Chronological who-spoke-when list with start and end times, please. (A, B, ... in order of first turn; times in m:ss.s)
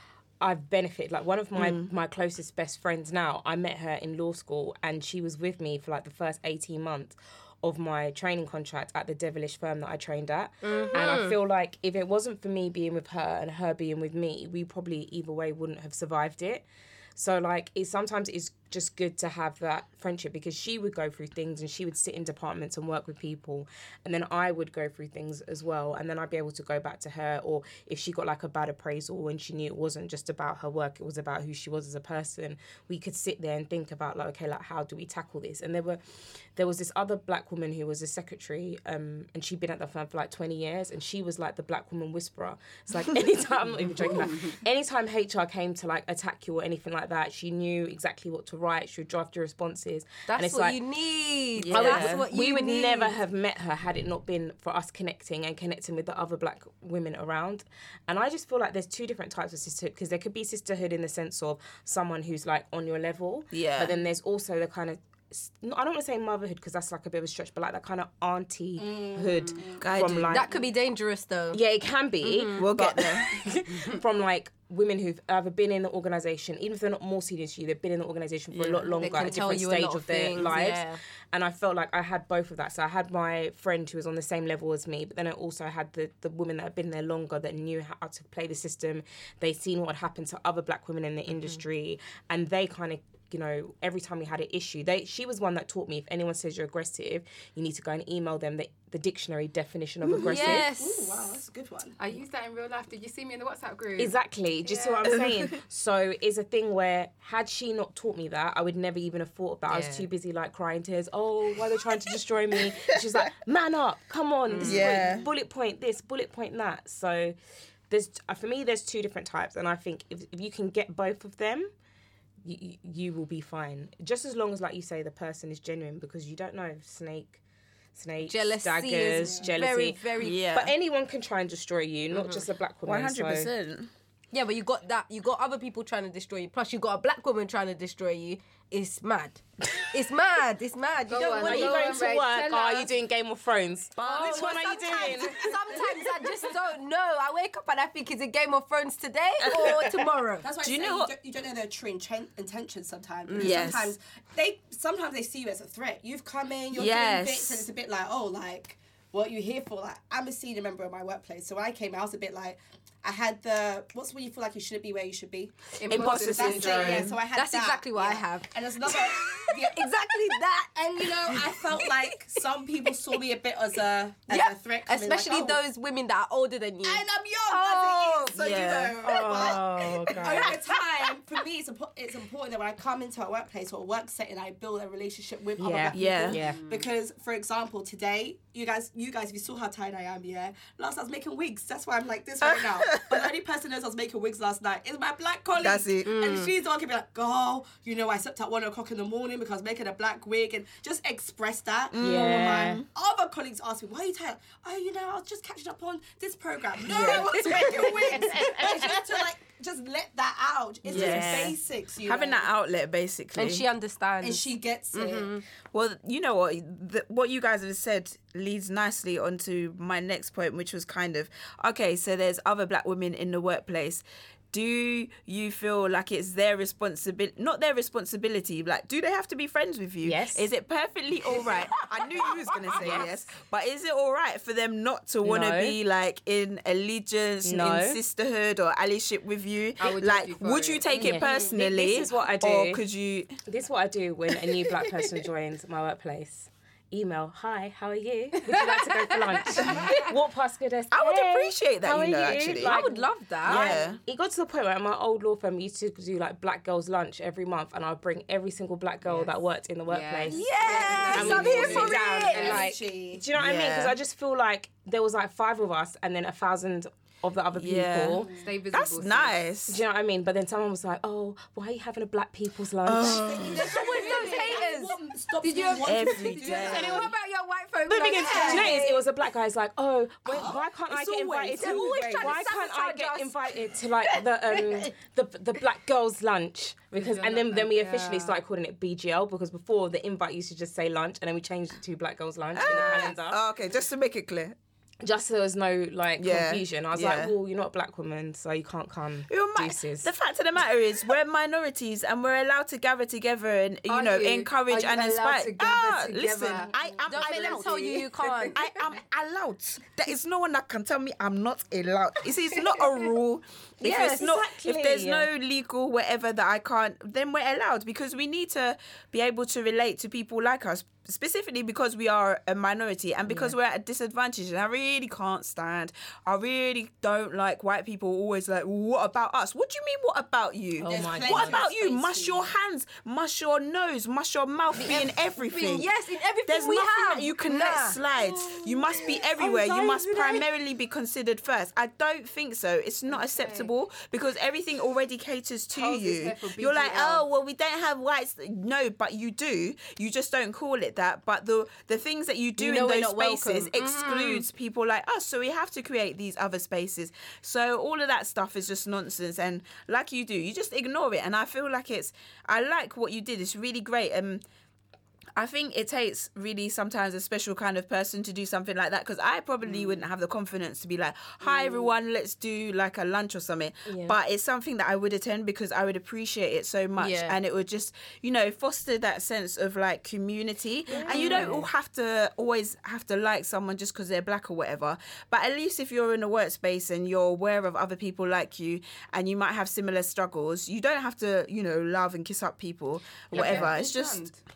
0:00.4-0:50.8 A
0:01.6-0:01.9 B
0:10.6-0:11.4 C
0:44.0-0:44.3 D
0:50.3-0:53.2 C
0:51.6-0:52.3 B
0:51.7-1:10.5 A
1:03.5-1:03.9 B
1:08.8-1:09.9 E
1:09.8-1:10.4 B
1:10.3-1:11.6 C
1:11.5-1:40.7 A
1:12.2-1:12.7 C
1:12.6-1:13.4 B
1:18.5-1:19.1 B
1:19.0-1:21.0 C
1:40.1-1:42.0 E
1:40.2-1:41.3 C
1:42.0-1:45.0 D
1:44.0-1:57.3 A
1:49.7-1:50.1 D
1:54.5-1:55.0 C
1:54.6-1:55.0 D
1:54.6-1:55.2 B
1:57.9-2:01.7 A
2:02.4-2:07.4 A
2:07.9-2:13.5 A
2:08.3-2:10.4 C
2:10.2-2:10.7 B
2:12.8-2:13.9 B
2:14.3-2:22.2 C
2:21.1-2:23.0 D
2:21.3-2:25.5 A
2:24.0-2:24.7 B
2:24.0-2:30.4 C
2:24.2-2:26.0 E
2:30.4-2:49.8 E
2:30.6-2:31.1 B
2:33.3-2:33.7 C
2:33.3-2:34.0 B
2:36.7-2:37.6 B
2:45.8-2:47.1 D
2:45.9-2:47.2 B
2:47.0-2:51.9 C
2:50.8-2:55.6 E
2:54.3-2:59.6 C
2:56.8-3:32.5 E
2:58.3-2:59.0 B
2:59.0-3:00.6 A
3:05.6-3:06.6 A
3:05.9-3:06.4 B
3:06.3-3:06.9 D
3:12.4-3:13.3 B
3:15.6-3:16.1 B
3:16.0-3:16.5 C
3:21.9-3:22.8 B
3:22.0-3:22.8 A
3:26.9-3:27.9 B
3:27.1-3:28.9 A
3:30.8-3:31.6 A
3:30.9-3:33.6 B
3:33.3-3:35.4 C
3:34.2-3:35.3 E
3:35.7-4:03.3 B
3:50.0-3:50.5 A
3:52.7-3:53.2 A
3:55.2-3:55.8 A
3:57.4-3:58.0 A
3:59.8-4:01.5 D
4:00.9-4:02.8 A
4:03.5-4:28.3 A
4:10.9-4:12.8 B
4:12.6-4:13.8 C
4:13.5-4:14.0 B
4:19.0-4:22.7 D
4:20.2-4:22.6 C
4:20.6-4:23.2 E
4:23.3-4:24.0 B
4:27.5-4:29.8 B
4:28.3-4:29.5 D
4:29.7-4:33.7 A
4:32.8-4:33.7 B
4:33.0-4:37.1 E
4:33.4-4:39.0 C
4:35.8-4:37.1 B
4:37.8-4:53.4 A
4:38.1-4:38.8 E
4:40.2-4:40.7 E
4:40.9-4:42.4 B
4:41.6-4:43.5 C
4:44.1-4:44.9 C
4:46.9-4:48.4 D
4:52.5-4:54.6 B
4:52.6-4:53.1 D
4:55.0-5:00.1 A
4:56.2-4:57.3 B
4:59.3-5:35.9 B
5:03.9-5:06.7 D
5:06.7-5:07.6 E
5:07.1-5:08.5 C
5:08.2-5:08.5 D
5:13.8-5:15.3 A
5:23.3-5:23.5 A
5:30.8-5:31.6 A
5:30.8-5:32.5 E
5:34.8-5:38.0 C
5:36.4-6:04.4 B
5:38.9-5:40.4 C
5:43.1-5:43.7 D
5:45.7-5:47.3 D
5:52.6-5:54.5 C
6:05.4-6:34.3 B
6:09.6-6:09.9 D
6:13.9-6:14.2 A
6:17.0-6:17.4 A
6:20.9-6:21.7 A
6:33.3-6:34.4 D
6:33.3-6:33.7 A